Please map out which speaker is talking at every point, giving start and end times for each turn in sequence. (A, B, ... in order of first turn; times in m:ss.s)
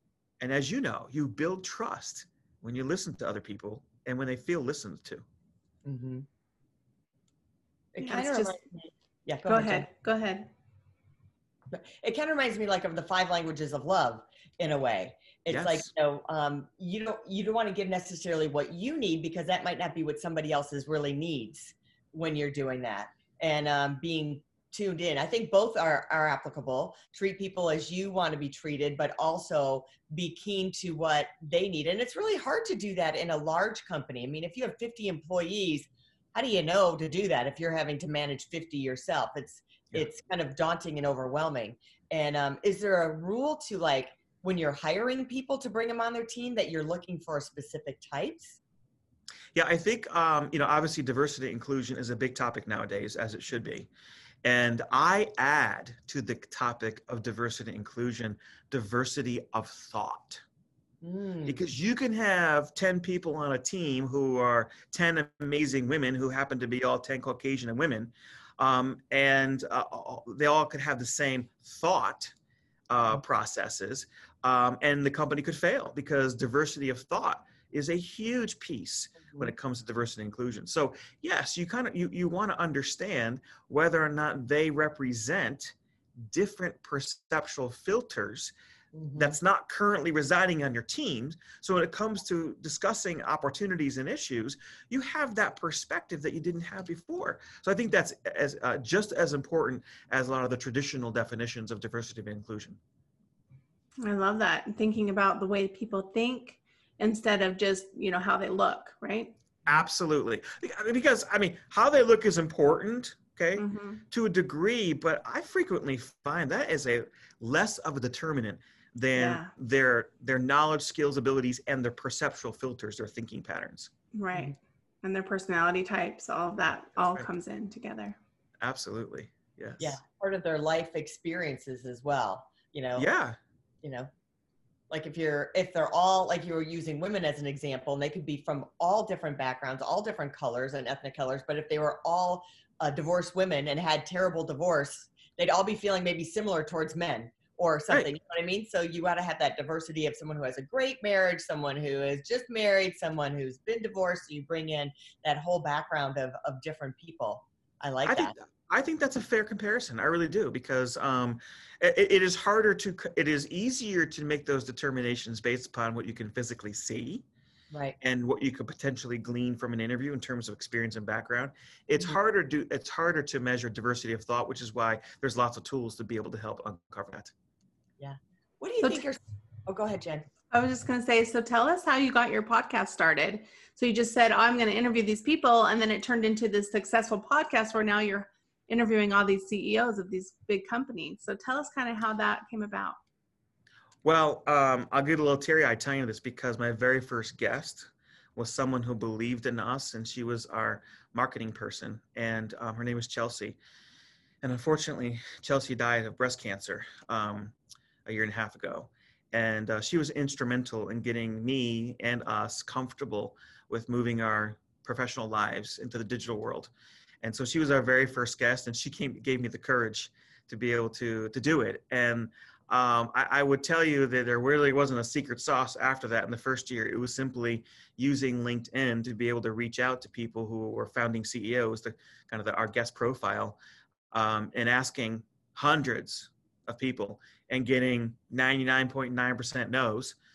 0:00.4-0:05.2 A
0:05.8-0:06.3 B
0:07.9-0:09.9 B
0:08.0-0:08.6 C
0:09.5-0:10.5 C
0:11.7-0:48.6 B
0:15.5-0:15.9 A
0:49.6-0:53.9 A
0:54.4-1:00.4 A
1:01.0-1:01.6 B
1:01.5-1:12.3 A
1:12.9-1:28.5 A
1:28.9-1:29.4 B
1:29.2-1:42.8 A
1:44.0-1:49.3 C
1:49.7-2:03.9 A
1:53.6-1:54.0 C
1:59.2-1:59.5 C
2:04.1-2:08.2 C
2:07.0-2:07.3 A
2:08.6-2:10.0 A
2:09.8-2:13.1 B
2:13.0-2:13.4 A
2:13.8-2:14.1 B
2:14.9-2:38.3 B
2:38.0-2:47.2 A
2:47.7-2:48.0 B
2:48.0-2:57.3 A
2:58.0-3:00.3 B
3:00.5-3:13.0 C
3:14.0-3:23.6 A
3:24.4-3:27.6 A
3:28.1-3:53.6 A
3:54.1-4:00.2 A